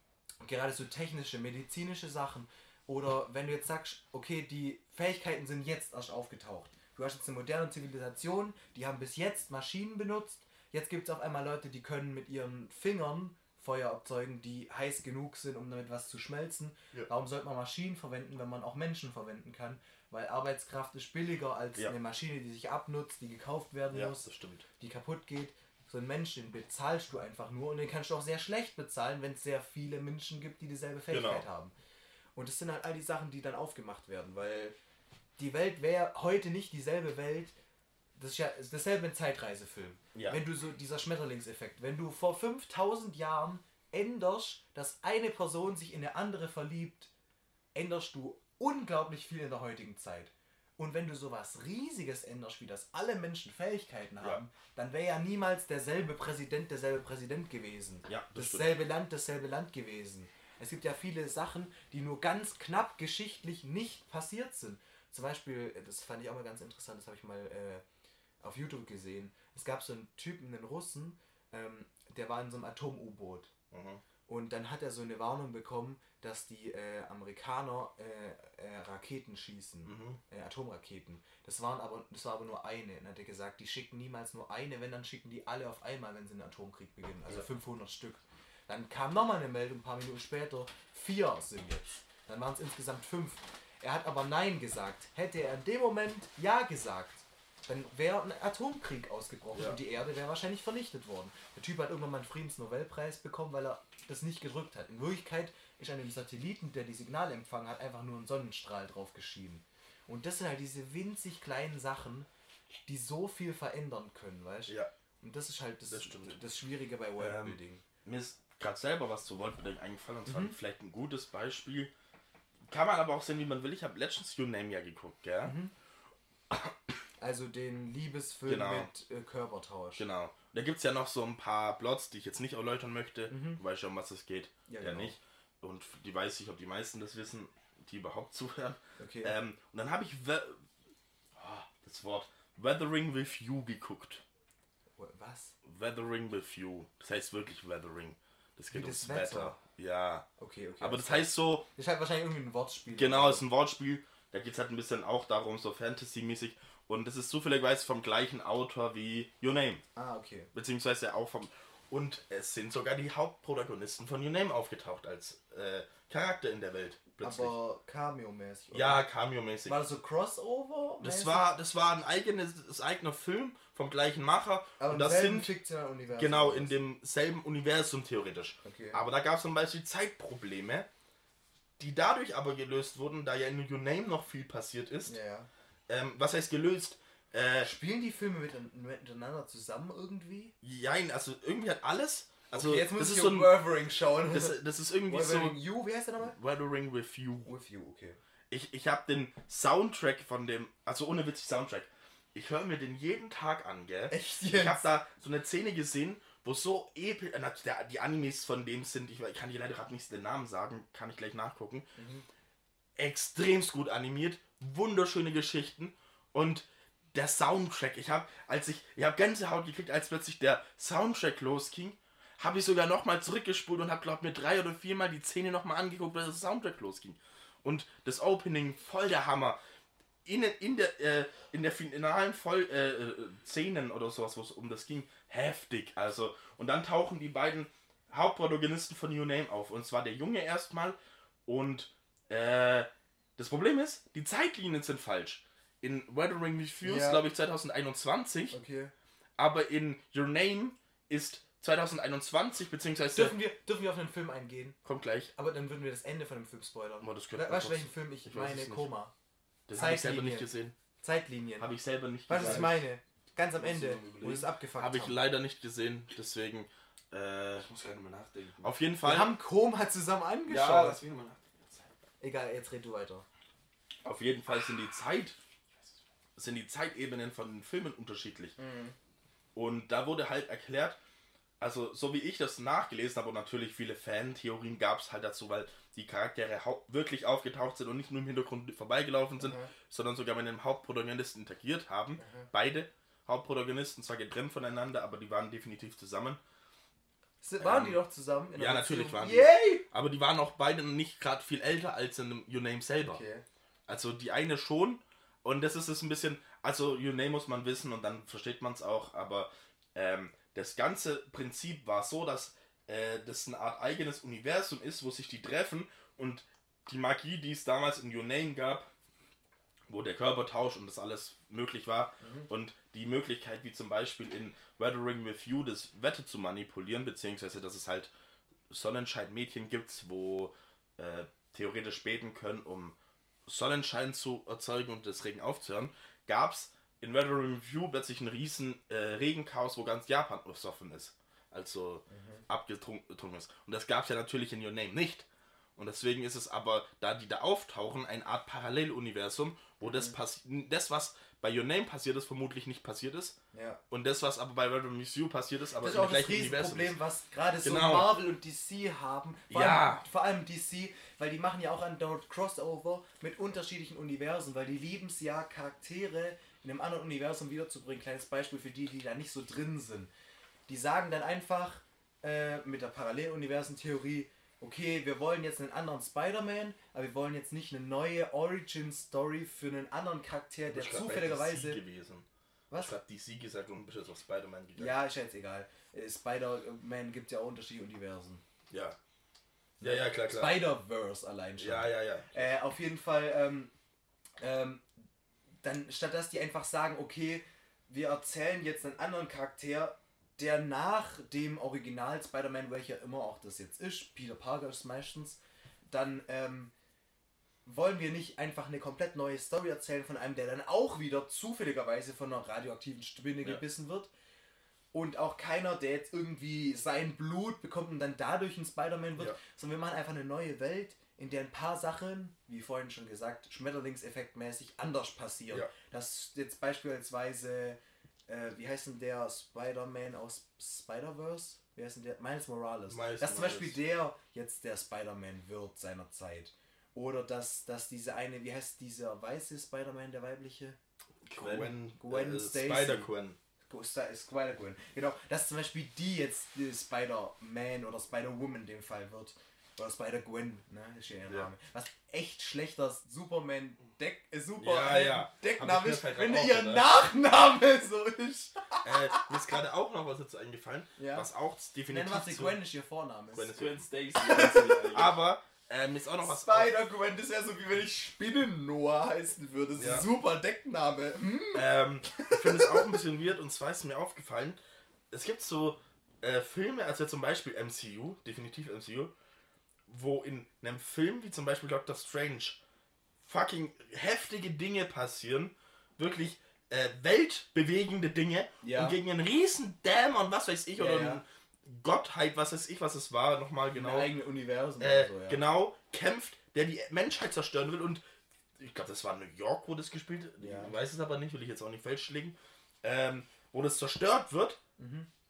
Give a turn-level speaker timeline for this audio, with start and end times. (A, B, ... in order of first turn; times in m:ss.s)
0:00.4-0:24.3 A
0:23.9-0:24.6 B
0:24.8-0:31.7 A
0:31.1-0:31.4 B
0:32.3-0:34.8 A
0:35.4-0:37.5 A
0:38.2-0:47.1 A
0:47.7-1:07.8 A
0:58.1-0:58.8 B
1:08.4-1:13.5 A
1:13.7-1:14.0 B
1:14.3-1:52.3 A
1:19.8-1:20.2 B
1:52.9-1:57.8 A
1:55.9-1:56.4 B
1:57.2-2:01.9 B
2:00.2-2:00.5 A
2:02.7-2:05.5 B
2:05.4-2:05.7 A
2:07.2-2:10.0 A
2:08.4-2:08.9 B
2:10.0-2:20.6 B
2:13.3-2:13.6 A
2:14.7-2:15.1 A
2:19.0-2:19.3 A
2:21.4-2:24.2 B
2:25.0-2:25.5 A
2:25.6-2:30.2 B
2:28.7-2:29.6 A
2:30.4-2:33.4 A
2:30.8-2:31.6 B
2:32.9-2:39.8 B
2:40.0-2:40.5 A
2:40.5-2:47.5 B
2:47.2-2:49.0 A
2:48.7-2:49.8 B
2:49.6-2:51.5 A
2:51.0-2:55.5 B
2:54.8-2:56.8 A
2:56.1-3:00.9 B
2:58.6-2:59.0 A
3:01.8-3:05.2 B
3:05.0-3:05.5 A
3:05.9-3:07.7 B
3:07.6-3:10.5 A
3:10.6-3:13.6 B
3:12.5-3:16.4 A
3:14.3-3:15.6 B
3:16.3-3:17.5 B
3:17.4-3:18.2 A
3:18.5-3:31.9 B
3:24.1-3:24.8 A
3:32.0-3:32.2 A
3:33.0-3:49.6 B
3:50.2-4:08.6 B
4:06.8-4:07.2 A
4:08.5-4:08.9 A
4:09.4-4:13.4 B
4:13.1-4:14.8 A
4:14.8-4:15.3 B
4:15.3-4:19.1 A
4:17.0-4:18.9 B
4:19.7-4:20.7 B
4:19.7-4:20.5 A
4:21.0-4:21.7 A
4:21.6-4:22.8 B
4:22.3-4:25.2 A
4:22.3-4:22.7 C
4:23.8-4:27.7 B
4:27.6-4:28.7 C
4:28.6-4:29.3 B
4:29.0-4:31.0 A
4:30.5-4:31.9 B
4:32.2-4:33.2 A
4:34.0-4:35.4 B
4:36.4-4:38.6 B
4:38.6-4:39.0 A
4:39.5-4:41.0 B
4:41.6-4:56.4 B
4:49.4-4:49.7 A
4:52.2-4:52.5 A
4:57.4-4:59.8 A
4:57.6-4:58.0 B
4:58.5-5:03.2 B
5:03.0-5:03.4 A
5:03.9-5:18.9 B
5:19.9-5:28.1 B
5:22.2-5:22.5 A
5:28.7-5:32.9 B
5:33.5-5:45.2 B
5:42.1-5:42.4 A
5:45.8-5:53.4 B
5:49.8-5:50.1 A
5:53.5-5:53.8 A
5:53.9-5:57.0 B
5:55.8-6:10.1 A
5:57.6-5:58.1 B
5:59.5-6:00.0 B
6:10.7-6:21.8 A
6:20.7-6:22.2 B
6:22.7-6:22.9 A
6:22.8-6:24.9 B
6:24.8-6:28.4 A
6:28.7-6:29.0 B
6:29.8-6:33.7 A
6:29.8-6:30.6 B
6:31.6-6:32.5 B
6:34.4-6:35.0 A
6:35.6-6:46.7 A
6:47.6-6:54.1 A
6:54.9-7:20.8 A
7:12.9-7:13.8 B
7:21.3-7:23.4 B
7:21.3-7:23.1 A
7:23.7-7:39.3 A
7:34.6-7:36.8 B
7:38.8-7:42.6 B
7:41.0-7:41.3 A
7:41.9-7:43.5 A
7:43.3-7:46.7 B
7:43.5-7:45.2 C
7:44.2-7:45.0 A
7:46.2-7:52.9 A
7:49.8-7:50.0 B
7:51.5-7:54.6 B
7:55.1-7:59.1 B
7:59.9-8:02.6 B
8:03.2-8:14.1 B
8:08.6-8:09.0 A
8:10.8-8:11.2 A
8:13.7-8:15.4 A
8:14.8-8:18.0 B
8:18.6-8:24.6 B
8:20.4-8:20.8 A
8:24.8-8:25.1 A